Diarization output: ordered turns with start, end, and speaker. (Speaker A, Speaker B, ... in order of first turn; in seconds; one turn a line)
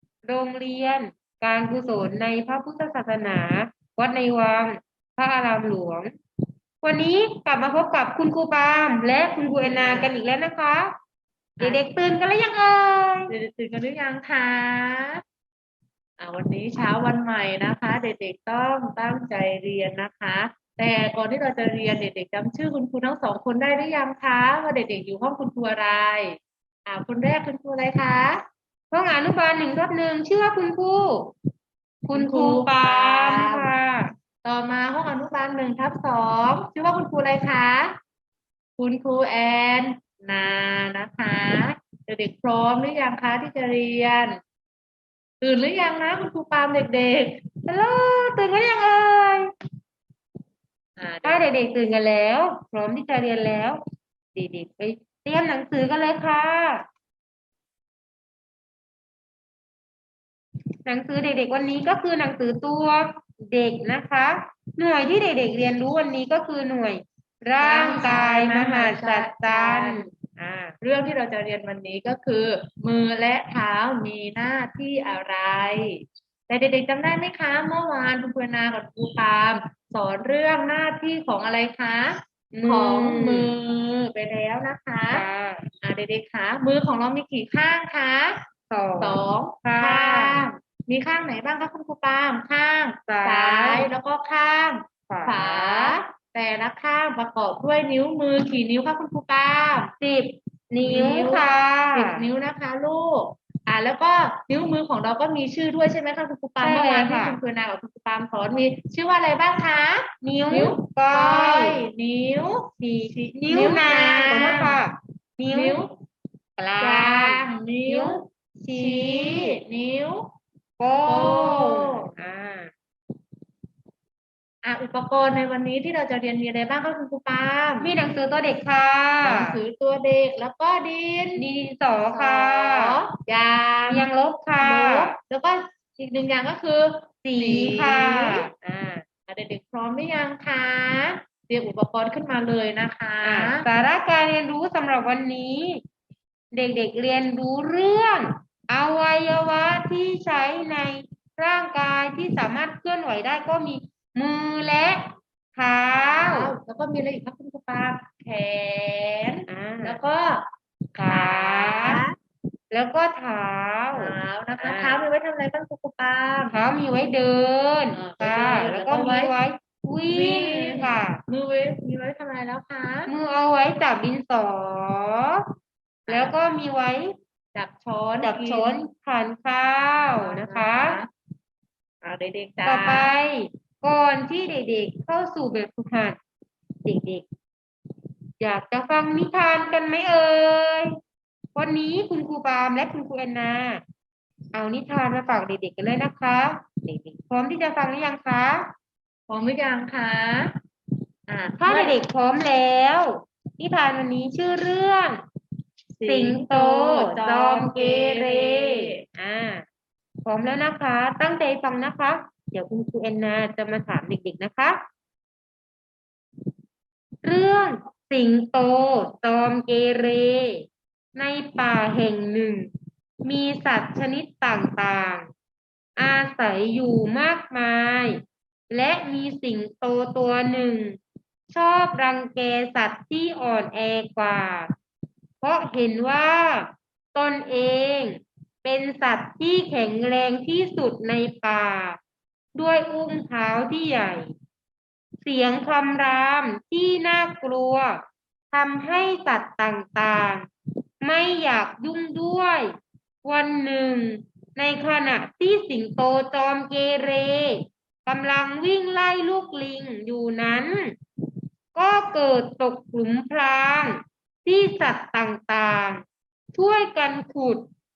Speaker A: 0.2-6.1
Speaker A: 6.8-10.9
Speaker B: 9.6-10.2
Speaker A: 11.6-13.3
Speaker B: 13.3-15.2
Speaker B: 16.2-28.4
Speaker A: 28.9-31.3
Speaker A: 32.0-34.1
Speaker B: 32.1-33.7
Speaker B: 34.4-38.0
Speaker B: 38.8-44.4
Speaker B: 45.4-47.4
Speaker A: 47.7-49.5
Speaker B: 51.0-51.4
Speaker A: 51.2-53.8
Speaker A: 54.3-56.9
Speaker A: 60.8-70.7
Speaker B: 67.6-70.1
Speaker B: 70.8-85.2
Speaker A: 82.5-83.5
Speaker A: 85.1-85.6
Speaker B: 85.8-88.4
Speaker A: 88.7-90.5
Speaker B: 89.0-99.9
Speaker A: 93.1-93.9
Speaker A: 95.1-96.0
Speaker A: 100.0-102.2
Speaker B: 100.8-114.8
Speaker A: 106.6-107.4
Speaker A: 110.2-111.8
Speaker A: 112.8-115.8
Speaker B: 115.5-115.9
Speaker A: 116.6-119.6
Speaker B: 116.8-118.2
Speaker B: 118.7-120.3
Speaker A: 120.8-122.7
Speaker B: 121.1-122.1
Speaker B: 124.6-127.9
Speaker A: 127.8-129.5
Speaker B: 129.2-131.5
Speaker A: 131.4-133.0
Speaker B: 132.1-134.1
Speaker A: 133.9-135.2
Speaker B: 134.6-138.5
Speaker A: 137.2-139.0
Speaker B: 139.3-143.7
Speaker A: 143.2-145.8
Speaker A: 146.5-156.5
Speaker B: 155.9-162.2
Speaker A: 159.5-160.0
Speaker A: 161.0-162.0
Speaker A: 162.7-165.0
Speaker B: 163.9-166.6
Speaker A: 166.5-171.2
Speaker B: 167.9-169.3
Speaker B: 170.1-173.1
Speaker A: 173.1-175.4
Speaker B: 176.1-176.4
Speaker A: 176.1-177.2
Speaker B: 177.5-178.8
Speaker A: 178.2-181.0
Speaker B: 180.2-181.1
Speaker B: 182.0-183.1
Speaker A: 182.7-186.2
Speaker A: 186.8-187.2
Speaker A: 188.4-190.9
Speaker A: 191.5-193.8
Speaker A: 194.5-198.7
Speaker B: 199.3-200.5
Speaker B: 201.3-202.0
Speaker A: 201.6-205.2
Speaker B: 206.0-209.0
Speaker A: 206.1-209.7
Speaker A: 210.2-214.8
Speaker A: 217.2-222.7
Speaker A: 223.2-225.3
Speaker A: 226.0-231.0
Speaker A: 231.5-234.7
Speaker A: 235.4-242.0
Speaker A: 242.5-244.3
Speaker A: 245.2-250.5
Speaker A: 251.0-252.7
Speaker A: 253.2-261.0
Speaker A: 261.7-267.7